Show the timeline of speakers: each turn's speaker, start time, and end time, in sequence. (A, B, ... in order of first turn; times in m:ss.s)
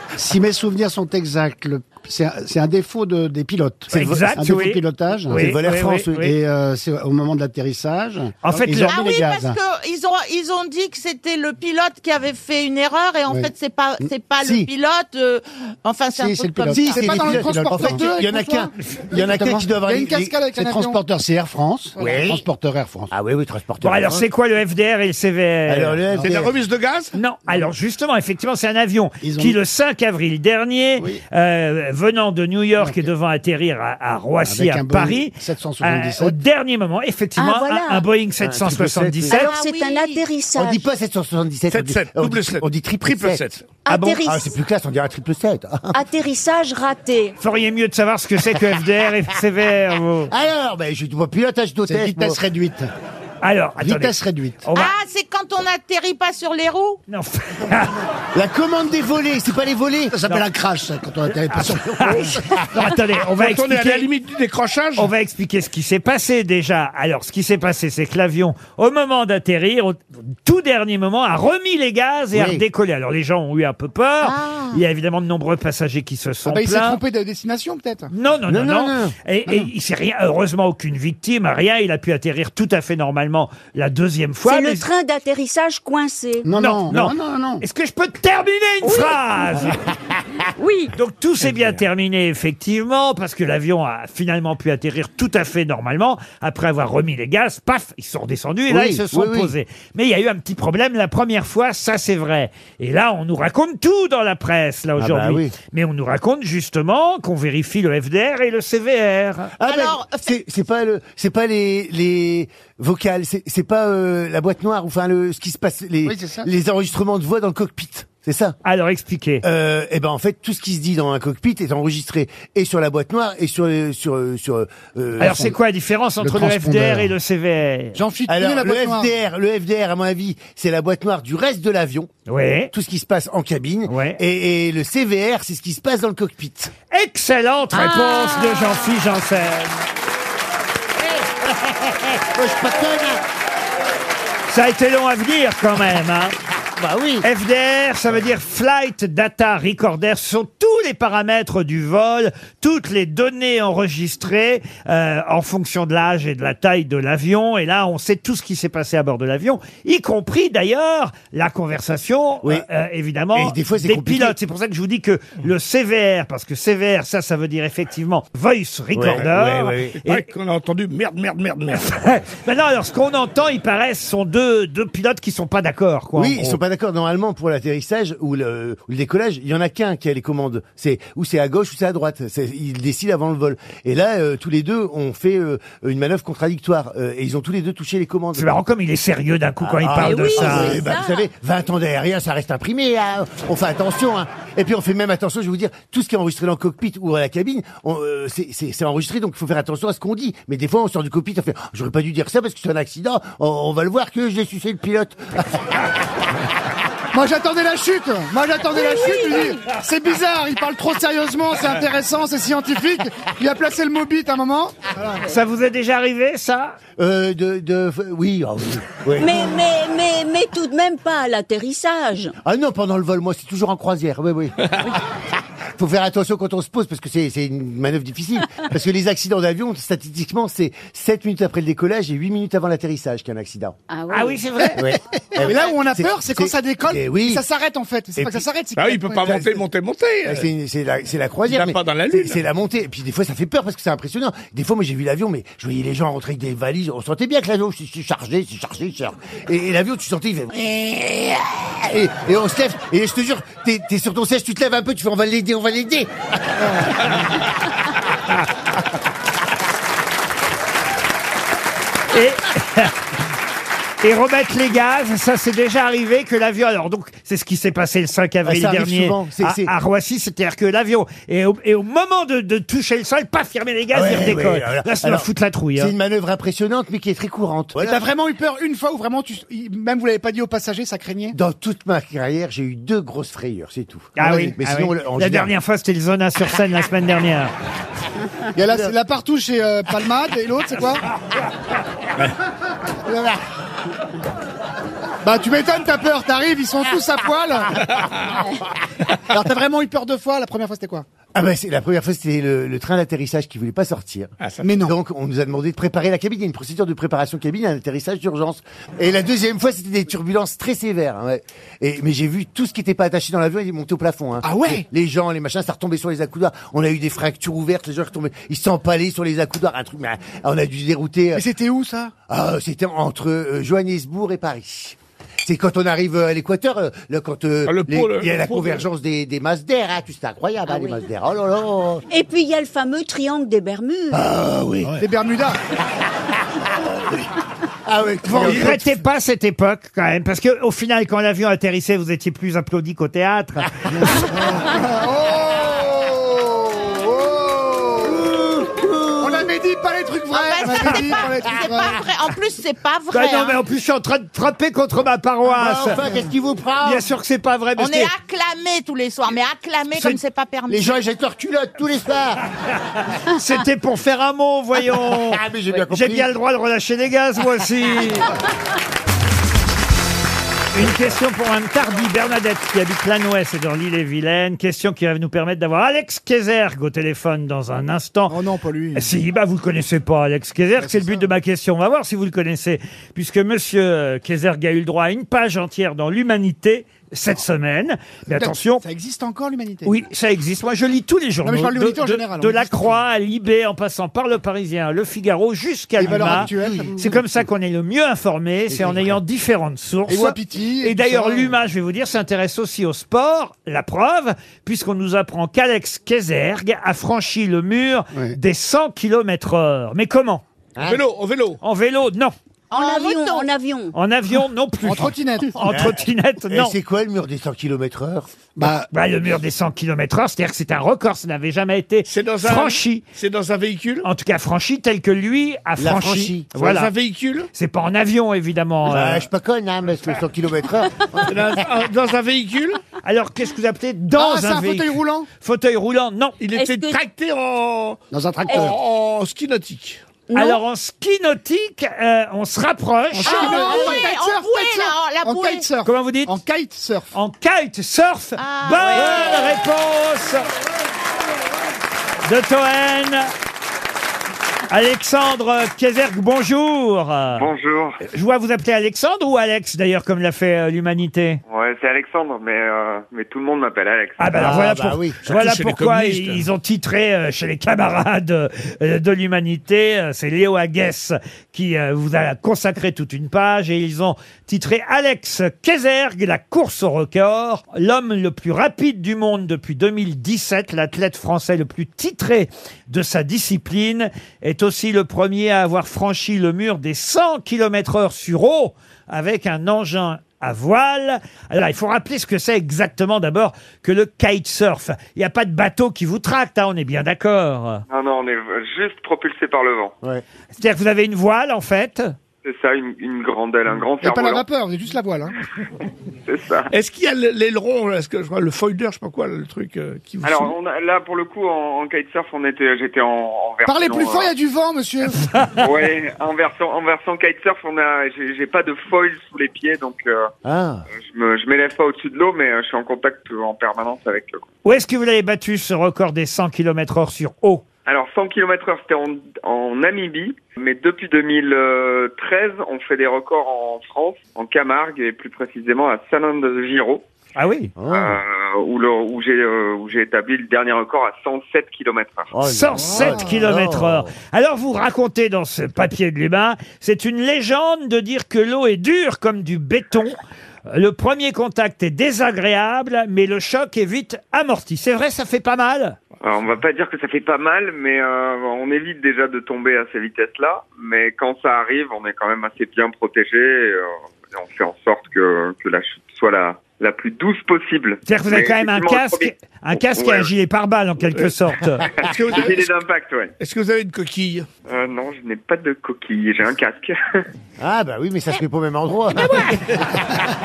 0:00.2-0:05.5 A
0:03.9-0:06.4 B
0:03.9-0:04.3 C
0:05.3-0:06.3 C
0:06.2-0:09.6 A
0:08.4-0:09.0 B
0:08.7-0:17.1 D
0:14.4-0:14.7 C
0:16.2-0:18.0 A
0:16.7-0:20.4 C
0:16.8-0:21.0 E
0:20.5-0:23.1 A
0:22.0-0:22.4 C
0:23.1-0:24.3 C
0:23.8-0:26.0 B
0:25.7-0:26.6 C
0:26.2-0:27.2 F
0:27.1-0:39.4 B
0:29.2-0:29.6 A
0:32.8-0:33.1 A
0:34.4-0:36.4 A
0:37.4-0:38.1 G
0:38.4-0:39.4 C
0:39.3-0:40.8 G
0:39.3-0:40.2 D
0:40.6-0:43.4 C
0:41.7-0:43.8 F
0:43.8-0:44.6 G
0:44.2-0:46.0 C
0:45.9-0:47.4 G
0:47.4-0:50.3 B
0:50.3-0:52.4 C
0:51.9-0:52.9 A
0:53.4-0:54.9 B
0:53.8-0:54.6 A
0:54.7-0:57.0 D
0:57.1-0:58.0 B
0:58.3-1:00.2 C
1:00.1-1:02.4 A
1:01.3-1:04.1 B
1:03.4-1:05.1 F
1:05.0-1:17.0 B
1:12.3-1:12.6 C
1:14.2-1:14.8 D
1:16.5-1:18.1 E
1:18.1-1:24.9 B
1:18.5-1:19.2 C
1:24.4-1:26.5 G
1:26.4-1:27.6 A
1:26.5-1:29.8 B
1:28.8-1:29.7 G
1:30.6-1:30.9 G
1:31.0-1:49.5 B
1:31.4-1:31.8 F
1:38.7-1:39.5 C
1:45.0-1:45.6 C
1:49.6-1:58.6 C
1:49.6-1:50.3 D
1:56.1-1:56.5 A
1:58.6-1:59.4 B
1:59.4-2:05.5 C
2:05.2-2:08.0 B
2:05.3-2:05.5 A
2:06.2-2:07.1 A
2:08.0-2:09.1 E
2:08.3-2:12.1 C
2:12.3-2:12.7 B
2:12.7-2:16.7 C
2:13.9-2:14.2 B
2:16.9-2:19.8 B
2:17.8-2:18.8 G
2:21.0-2:23.2 C
2:24.5-2:26.4 B
2:26.8-2:27.3 C
2:27.2-2:50.3 B
2:43.3-2:44.4 C
2:48.9-2:50.0 C
2:50.0-2:51.9 F
2:51.7-2:56.6 B
2:56.2-3:08.5 C
3:08.4-3:10.8 B
3:09.6-3:25.8 C
3:10.0-3:11.2 G
3:27.1-3:35.2 E
3:28.7-3:29.6 G
3:35.3-3:36.8 B
3:37.0-3:39.5 C
3:39.2-3:42.4 G
3:42.4-3:44.9 C
3:45.8-3:53.8 C
3:53.9-3:54.8 G
3:54.1-3:54.9 B
3:54.8-3:57.4 C
3:55.4-3:59.6 E
3:58.2-3:58.5 C
3:58.8-4:00.5 F
4:00.2-4:16.8 C
4:01.5-4:02.4 F
4:22.1-4:22.9 B
4:24.0-4:35.9 B
4:28.4-4:29.7 C
4:33.9-4:38.1 C
4:37.8-4:41.4 E
4:41.3-4:45.5 C
4:44.2-4:47.5 B
4:48.6-4:51.0 E
4:55.2-4:57.9 E
4:59.3-5:01.0 E
5:01.3-5:21.4 C
5:04.6-5:05.0 E
5:14.4-5:14.8 E
5:21.4-5:22.1 E
5:22.3-5:32.1 C
5:27.7-5:28.8 F
5:30.7-5:31.0 G
5:32.1-5:34.2 G
5:34.1-5:35.0 C
5:35.0-5:35.6 E
5:36.7-5:37.3 C
5:37.9-5:39.0 C
5:38.2-5:43.7 B
5:44.2-5:48.3 E
5:48.0-5:49.5 C
5:49.2-5:52.0 E
5:50.3-5:53.6 D
5:53.1-5:56.0 B
5:55.5-5:57.1 C
5:56.8-5:58.1 B
5:57.8-6:01.0 D
6:00.7-6:02.4 C
6:03.1-6:08.3 B
6:05.0-6:06.3 C
6:10.7-6:18.4 B
6:10.8-6:11.1 C
6:18.3-6:19.1 E
6:19.0-6:28.8 B
6:20.8-6:21.3 E
6:28.3-6:30.0 E
6:29.8-6:50.4 B
6:31.4-6:33.0 E
6:36.0-6:37.1 E
6:36.1-6:36.9 C
6:38.7-6:39.2 C
6:40.1-6:41.6 E
6:50.8-6:51.0 C
6:50.8-6:51.6 F
6:51.6-6:52.3 B
6:52.7-6:53.5 D
6:52.7-6:54.0 G
6:53.9-6:56.8 B
6:54.8-6:55.5 E
6:55.7-6:58.3 C
6:58.6-6:58.8 E
6:58.6-6:58.9 A
6:58.9-7:03.0 B
7:02.1-7:04.1 F
7:04.0-7:06.9 B
7:05.8-7:06.5 C
7:06.5-7:07.5 F
7:07.5-7:09.3 B
7:08.9-7:11.6 C
7:11.2-7:12.8 F
7:13.0-7:16.4 B
7:14.1-7:15.3 E
7:16.4-7:20.0 F
7:16.5-7:17.0 G
7:18.1-7:18.8 A
7:20.3-7:20.6 G
7:20.3-7:23.8 B
7:23.1-7:27.1 E
7:23.2-7:25.7 D
7:23.5-7:24.0 G
7:25.8-7:26.3 B
7:27.1-7:30.4 B
7:28.4-7:29.6 D
7:32.3-7:33.3 B
7:34.7-7:37.5 B
7:37.4-7:38.0 H
7:38.0-7:41.4 B
7:41.5-7:44.5 H
7:44.2-8:17.8 B
7:44.4-7:45.2 C
7:45.2-7:46.5 F
8:17.9-8:19.9 H
8:20.6-8:22.1 B
8:22.4-8:24.4 H
8:24.0-8:25.4 E
8:26.3-8:26.7 H
8:26.7-8:30.6 F
8:30.2-8:34.3 H
8:33.7-8:35.2 E
8:35.6-8:40.3 H
8:40.4-8:40.9 C
8:41.0-8:44.5 H
8:44.6-8:47.6 B
8:47.9-8:57.0 H
8:57.4-8:57.7 B
8:57.8-8:58.2 C
8:57.9-9:02.3 H
9:02.3-9:04.1 C
9:02.4-9:10.2 B
9:02.8-9:03.4 E
9:10.7-9:16.0 B
9:16.2-9:30.3 H
9:28.1-9:31.9 B
9:32.0-9:32.7 F
9:32.3-9:33.3 H
9:33.4-9:34.5 F
9:34.7-9:37.2 H
9:37.6-9:39.6 C